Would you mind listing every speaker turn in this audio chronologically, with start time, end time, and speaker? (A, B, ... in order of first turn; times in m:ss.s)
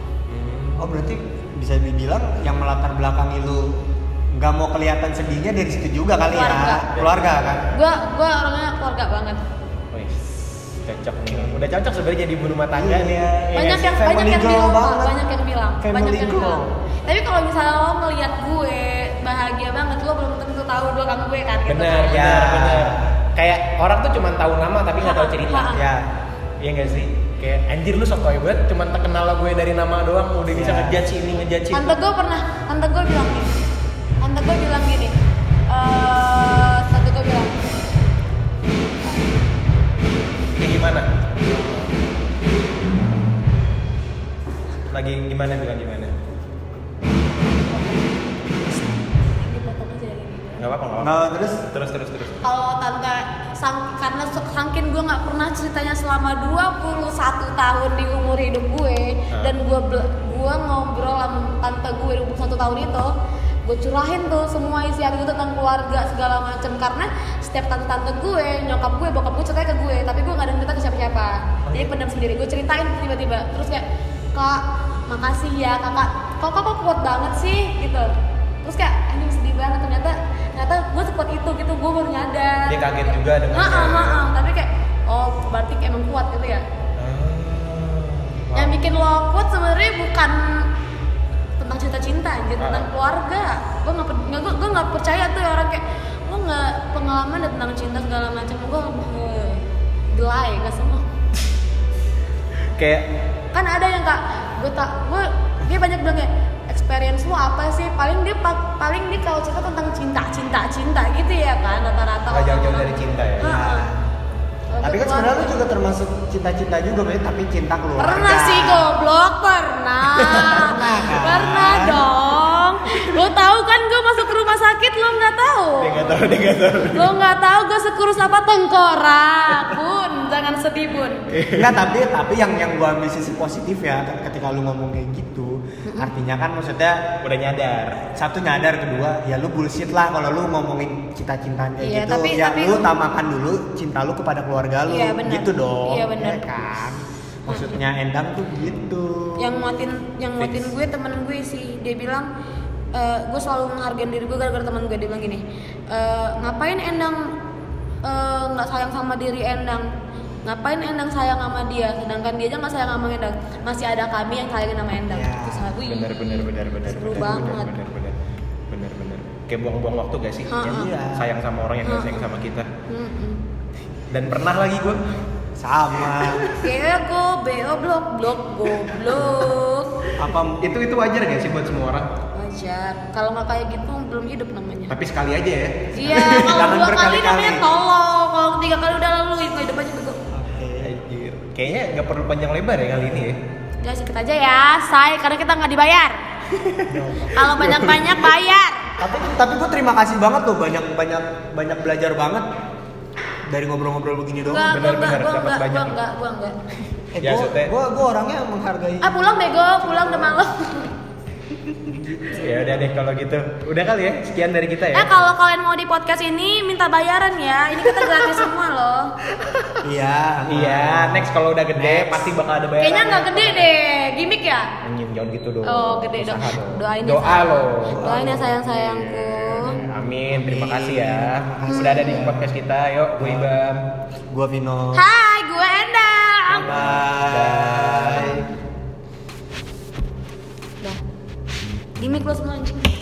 0:00.3-0:01.0 A
0:00.8-0:03.8 B
0:04.3-0:07.6 B
0:06.2-0:06.9 C
0:06.9-0:07.3 A
0:07.7-0:09.4 C
0:09.9-0:13.4 A
0:11.3-0:11.6 B
0:12.8-0:15.2 B
0:13.5-0:22.3 C
0:15.8-0:16.7 B
0:21.7-0:25.8 A
0:22.1-0:23.1 B
0:25.0-0:25.8 C
0:25.7-0:26.1 B
0:26.6-0:32.0 A
0:30.5-0:31.0 B
0:31.7-0:33.6 C
0:34.2-0:35.1 C
0:35.7-0:37.5 C
0:40.5-0:41.1 A
0:44.9-0:46.1 A
0:47.7-0:48.2 C
0:48.7-0:50.7 C
0:50.6-0:52.5 A
0:51.0-0:51.6 B
0:52.4-1:03.1 C
1:03.6-1:18.1 C
1:18.6-1:26.6 C
1:22.7-1:24.2 A
1:27.0-1:28.8 A
1:28.6-1:30.7 C
1:31.6-1:41.1 C
1:32.6-1:32.9 A
1:42.8-1:43.0 A
1:43.5-1:53.9 C
1:52.3-1:53.5 A
1:53.4-1:54.0 B
1:54.7-1:55.7 C
1:54.8-1:58.9 B
1:58.0-2:11.2 C
2:00.3-2:02.0 B
2:05.8-2:07.1 A
2:11.3-2:11.8 A
2:11.5-2:17.0 B
2:15.8-2:16.1 C
2:17.2-2:18.1 A
2:18.1-2:29.6 B
2:21.8-2:22.9 C
2:24.9-2:26.6 C
2:27.5-2:27.8 C
2:28.6-2:28.9 A
2:29.4-2:32.3 C
2:30.4-2:30.7 A
2:32.9-2:37.2 C
2:38.0-2:39.9 C
2:40.4-2:47.8 C
2:45.1-2:45.7 B
2:45.8-2:48.2 A
2:48.7-2:52.7 A
2:50.5-2:50.9 C
2:50.7-2:51.3 B
2:51.8-2:52.3 C
2:52.9-2:53.4 C
2:54.1-2:55.0 A
2:55.6-2:56.4 B
2:56.2-2:56.6 A
2:56.6-3:00.0 C
3:00.2-3:00.7 B
3:00.6-3:02.1 A
3:02.3-3:05.0 C
3:04.9-3:06.7 A
3:05.9-3:10.2 C
3:06.4-3:07.7 B
3:10.3-3:11.5 B
3:11.5-3:13.4 A
3:13.8-3:16.2 C
3:16.7-3:17.0 A
3:16.9-3:18.0 B
3:17.3-3:18.9 C
3:17.6-3:18.2 A
3:19.0-3:22.5 B
3:23.5-3:24.7 B
3:24.5-3:26.6 C
3:24.7-3:26.0 A
3:27.1-3:29.2 B
3:27.2-3:27.7 A
3:29.0-3:30.9 C
3:29.8-3:30.4 B
3:31.7-3:32.9 B
3:32.3-3:35.2 A
3:34.9-3:39.1 C
3:39.4-3:39.8 A
3:39.8-3:42.3 B
3:40.5-3:43.7 A
3:42.8-3:44.7 C
3:44.8-3:53.9 A
3:45.6-3:49.8 C
3:47.9-3:48.6 B
3:49.6-3:52.5 B
3:51.7-3:52.3 C
3:53.2-3:53.5 B
3:54.3-3:55.1 B
3:54.9-3:56.8 C
3:56.5-3:58.5 B
3:56.6-3:58.4 A
3:58.1-3:58.5 C
4:02.0-4:02.9 C